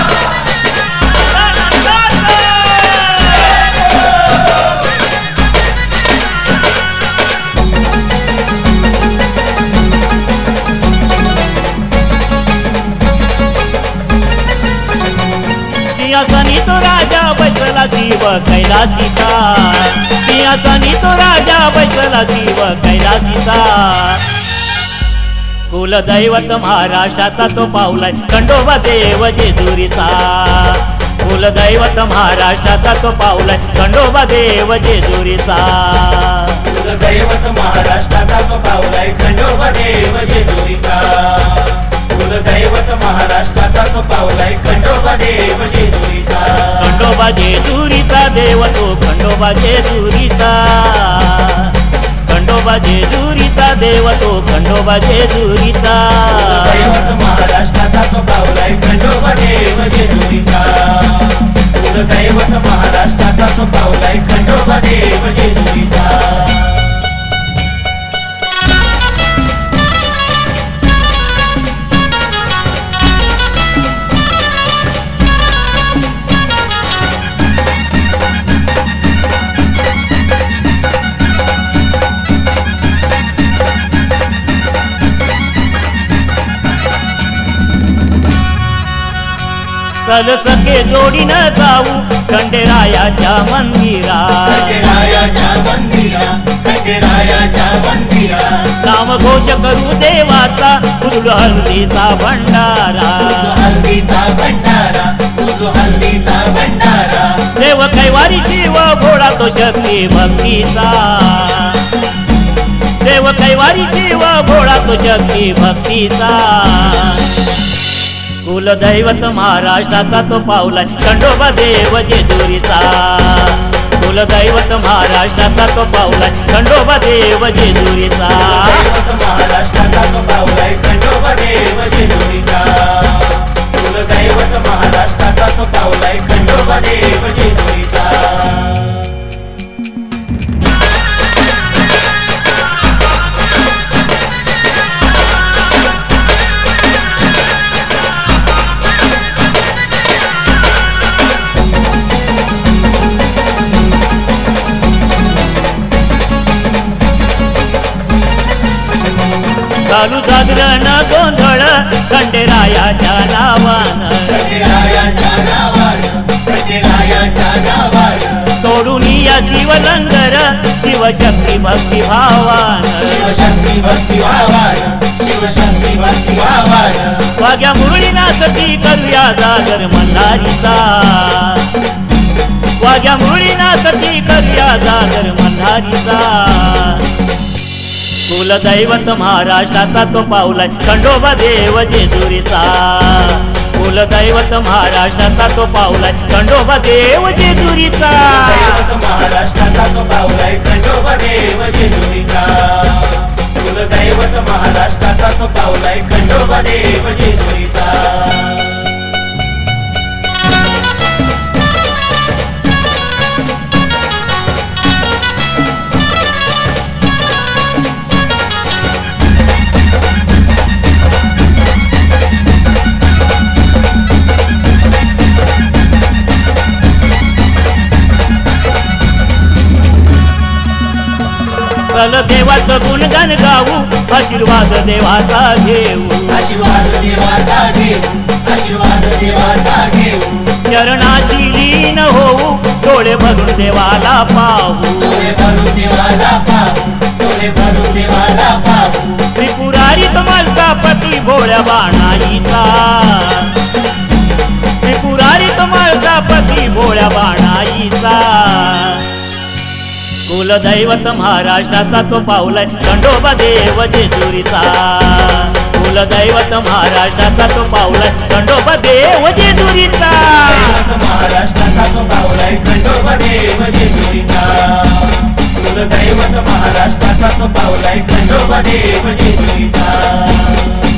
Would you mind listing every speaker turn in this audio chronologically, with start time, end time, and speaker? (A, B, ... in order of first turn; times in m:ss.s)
0:01.1-0:03.6 A
0:15.8-0:24.3 A
0:25.7-0:36.7 A
0:36.7-0:46.8 B
0:46.8-0:57.0 A
0:56.5-1:06.9 B
1:30.0-1:34.9 A
1:34.5-1:38.7 B
1:38.7-1:43.6 A
1:43.3-1:47.4 B
1:47.5-1:51.9 A
1:53.0-1:57.4 A
1:58.4-2:08.9 A
2:08.6-2:18.9 B
2:39.8-2:44.6 A
2:44.3-2:48.5 B
2:48.6-2:53.4 A
2:53.1-2:57.3 B
2:57.3-3:01.8 A
3:02.8-3:07.2 A
3:08.3-3:18.9 A
3:18.4-3:28.8 B
3:51.9-3:56.5 A
3:56.3-4:00.5 B
4:00.6-4:05.4 A
4:05.0-4:09.2 B
4:09.3-4:13.6 A
4:14.8-4:19.1 A
4:20.3-4:30.8 A
4:30.5-4:40.8 B